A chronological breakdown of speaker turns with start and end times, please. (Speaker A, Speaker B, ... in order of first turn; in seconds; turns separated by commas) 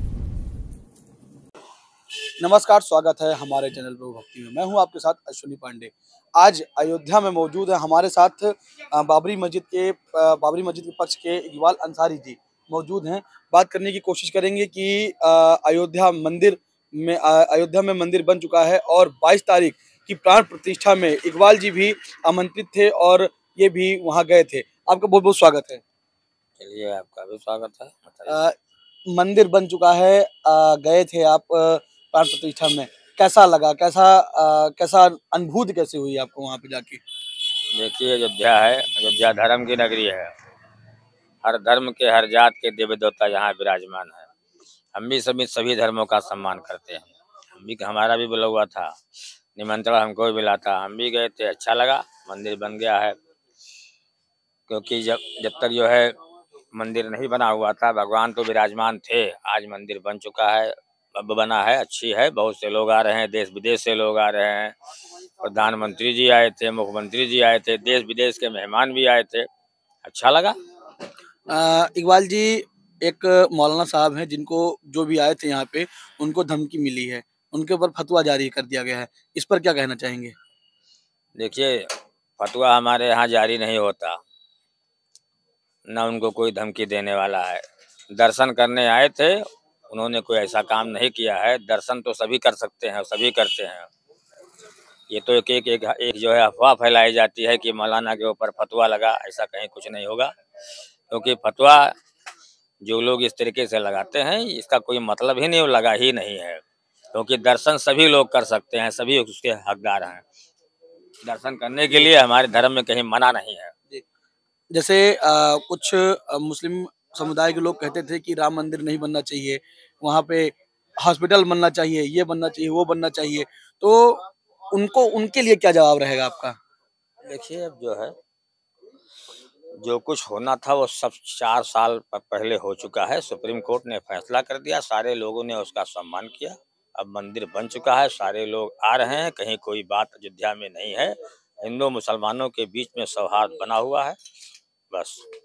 Speaker A: 2.4-25.8, Speaker B: 26.6-28.4, Speaker A: 28.3-28.5, Speaker A: 29.1-37.0, Speaker B: 37.7-40.3, Speaker B: 41.4-44.3, Speaker B: 44.9-49.0, Speaker B: 49.5-53.1, Speaker B: 54.7-56.2, Speaker B: 56.7-64.8, Speaker B: 65.4-69.5, Speaker B: 70.0-70.5, Speaker A: 71.5-80.3, Speaker B: 81.4-84.2, Speaker B: 85.9-93.9, Speaker B: 95.1-100.3, Speaker B: 101.1-101.9, Speaker B: 102.8-106.6, Speaker B: 107.1-110.2, Speaker B: 111.2-113.7, Speaker A: 114.7-126.6, Speaker B: 127.2-128.1, Speaker B: 129.8-144.2, Speaker B: 144.9-145.2